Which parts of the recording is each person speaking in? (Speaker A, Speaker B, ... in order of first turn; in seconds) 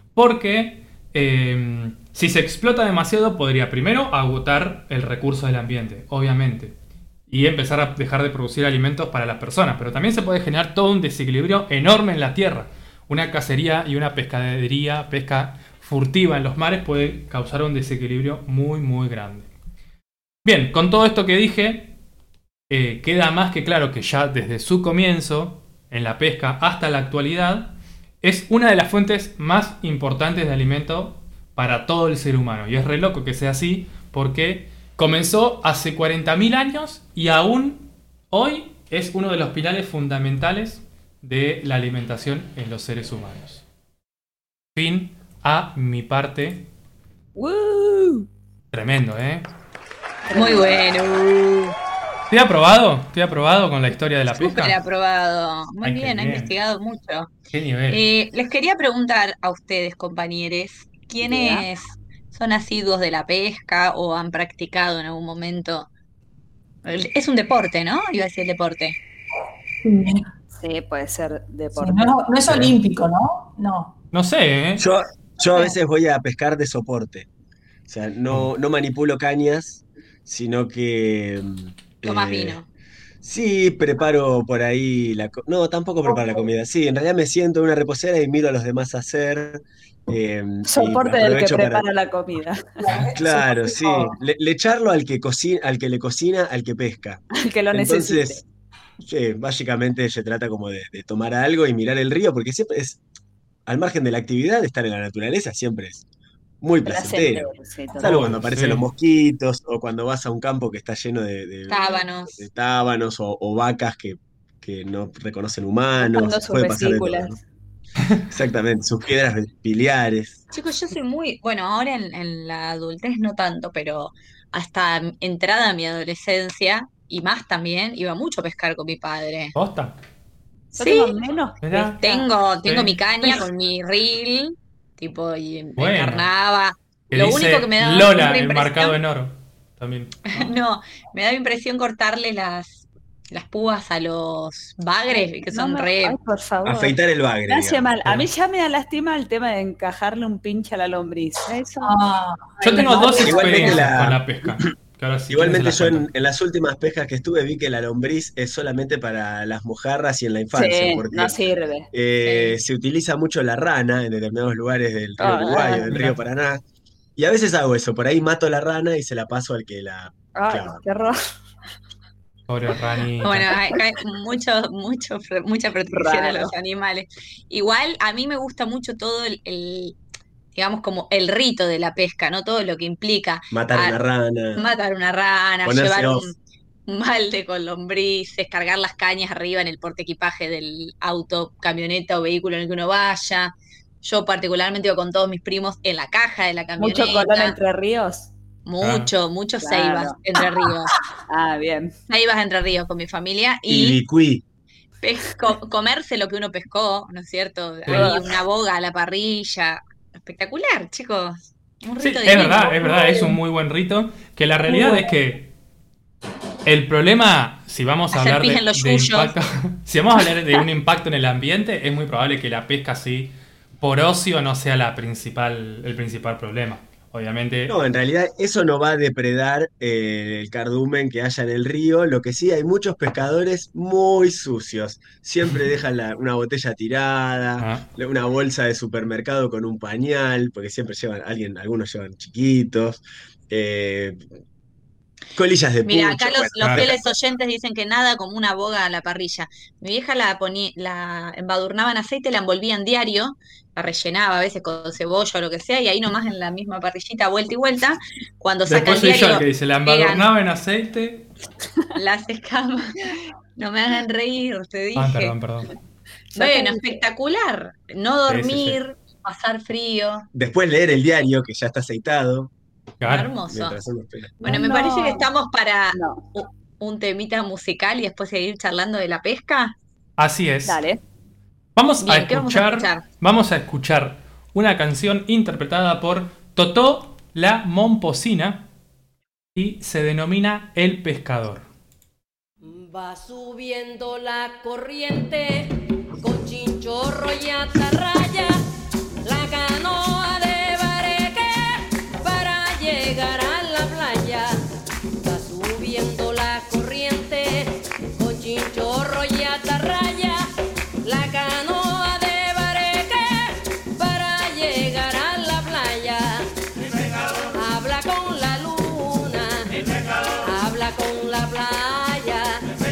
Speaker A: 0.2-6.7, 7.3-19.5, 20.4-21.9, 22.7-43.6, 44.8-46.7, 48.7-49.5, 52.3-54.8, 55.8-56.5, 57.5-58.0, 72.5-72.8, 74.1-74.8, 108.0-108.8, 129.6-130.0, 131.6-132.0, 132.6-133.0, 135.8-136.3, 137.1-140.5, 152.6-156.1, 165.9-166.2, 172.5-173.5, 198.8-199.1, 207.9-208.1, 212.0-215.5, 216.7-227.8, 237.6-237.9, 246.6-246.9, 258.7-261.3, 265.0-265.7, 268.3-268.8, 273.0-273.3, 280.2-280.8, 281.8-288.6, 289.6-291.7
Speaker B: 47.4-48.3, 50.3-50.8, 61.2-61.6, 70.6-72.2, 90.7-92.8, 97.4-98.4, 106.8-108.3, 116.0-117.4, 130.7-132.3, 145.1-147.0, 147.5-151.9, 152.7-153.6, 160.5-161.9, 165.2-165.8, 170.4-171.2, 175.9-176.5, 196.8-198.3, 199.6-200.7, 201.3-201.9, 207.9-208.4, 266.4-267.0, 274.4-275.2, 275.9-276.2, 280.7-281.0
Speaker C: 50.3-51.8, 54.4-57.3, 57.9-65.9, 66.8-69.0, 82.0-82.7, 111.7-112.4, 120.5-129.5, 130.8-131.2, 132.0-139.0, 140.3-146.2, 162.2-162.6, 173.2-180.0, 180.5-183.9, 184.6-197.6, 198.7-200.9, 202.1-204.0, 205.0-213.0, 218.1-219.3, 245.8-260.3, 261.9-265.3, 266.3-270.3, 273.1-273.8, 274.4-279.7, 282.0-283.0
Speaker D: 69.8-70.2, 71.8-73.9, 86.0-86.5, 92.8-94.2, 151.8-153.5
Speaker E: 74.8-77.3, 77.9-82.6, 83.2-91.8, 93.1-98.5, 99.0-103.0, 103.7-106.0, 106.6-117.4, 118.3-120.4, 146.7-148.3, 153.2-154.6, 155.3-161.4, 161.9-166.6, 167.2-170.8, 183.5-184.6, 185.6-186.3, 203.7-204.4, 227.7-244.2, 245.3-247.1, 270.3-272.5, 273.5-274.3
Speaker F: 292.6-298.6, 299.2-304.6, 305.2-310.5, 311.0-316.5, 317.5-319.8, 320.4-322.6